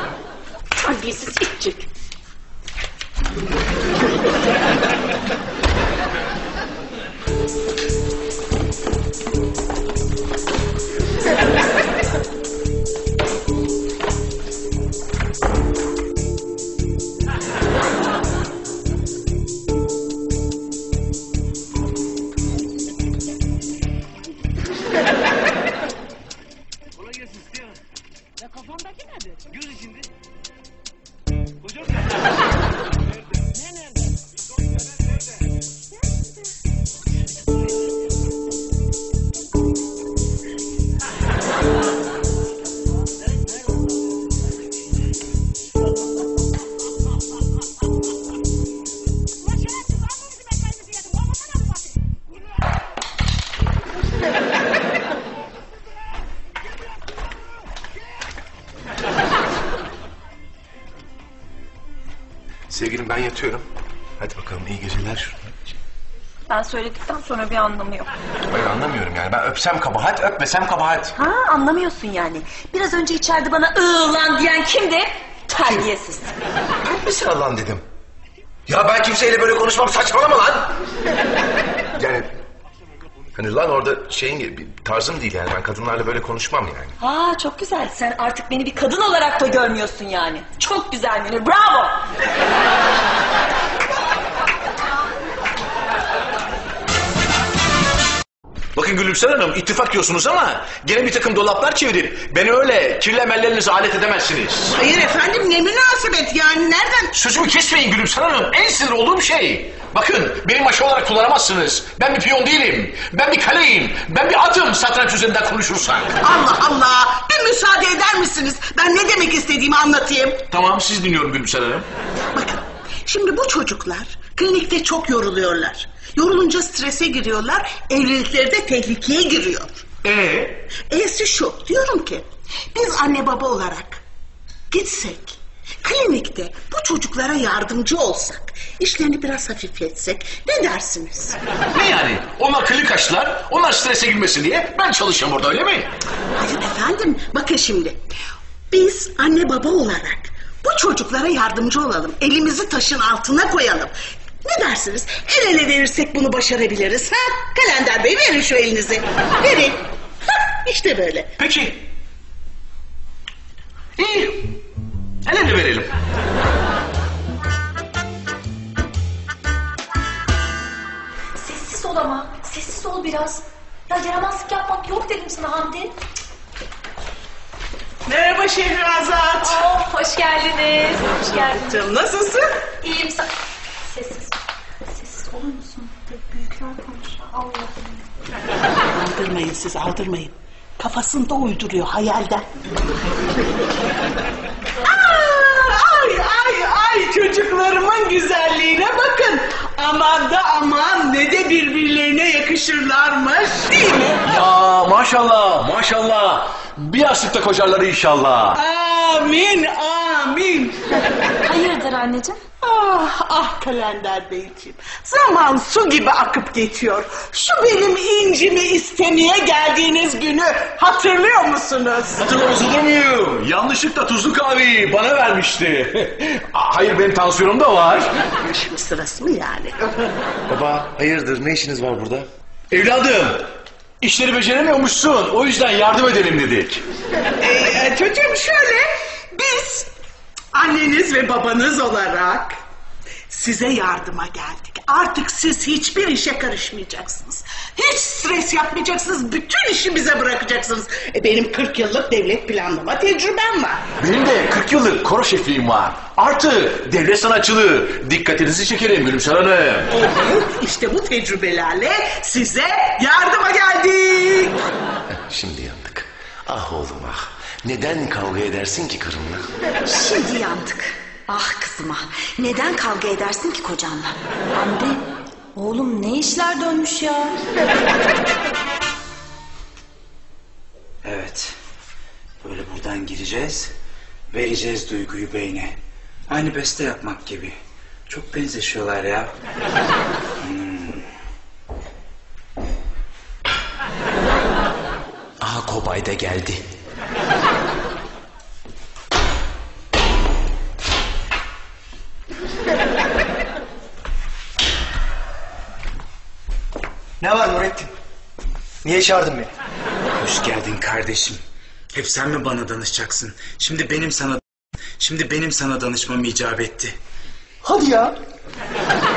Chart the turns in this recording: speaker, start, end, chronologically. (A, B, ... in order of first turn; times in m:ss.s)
0:00.8-0:01.9 A
1:02.7-1:03.7 B
1:04.2-1:05.7 B
1:06.5-1:08.1 A
1:08.5-1:11.1 B
1:11.2-1:16.3 A
1:15.6-1:15.9 B
1:16.8-1:17.8 B
1:18.7-1:20.7 B
1:22.0-1:22.3 B
1:23.4-1:27.0 B
1:27.0-1:32.0 A
1:38.8-1:44.8 C
1:44.7-1:47.1 D
1:47.1-1:56.2 C
1:56.2-2:00.4 D
2:00.5-2:01.9 C
2:02.3-2:09.9 D
2:10.1-2:10.5 C
2:10.7-2:14.0 D
2:14.7-2:21.4 D
2:21.7-2:25.9 C
2:26.4-2:28.0 D
2:28.7-2:33.9 D
2:34.4-2:41.3 D
2:41.4-2:41.8 C
2:44.0-2:44.6 C
2:45.3-2:45.9 C
2:51.4-2:55.9 A
2:58.1-2:59.6 D
2:59.4-3:01.9 A
3:01.2-3:02.5 D
3:02.8-3:03.3 A
3:03.9-3:04.3 A
3:04.9-3:08.0 A
3:08.9-3:12.5 D
3:14.8-3:24.2 D
3:24.2-3:28.6 C
3:28.5-3:30.8 D
3:31.4-3:32.4 A
3:32.6-3:42.2 D
3:42.2-3:48.1 C
3:48.4-3:50.1 D
3:50.5-3:52.3 B
3:52.7-3:53.5 C
3:54.0-3:56.8 C
3:57.4-3:59.9 D
4:00.5-4:02.6 D
4:03.3-4:13.8 D
4:14.0-4:19.9 C
4:19.9-4:24.6 D
4:25.1-4:29.5 B
4:29.8-4:37.4 A
4:41.0-4:41.6 E
4:42.4-4:43.7 E
4:44.3-4:45.8 E
4:46.3-4:49.3 E
4:50.4-4:51.1 E
4:55.4-4:56.6 E
5:07.2-5:07.9 F
5:08.8-5:09.5 F
5:10.2-5:11.4 E
5:11.9-5:14.4 E
5:15.0-5:17.0 E
5:17.6-5:18.2 F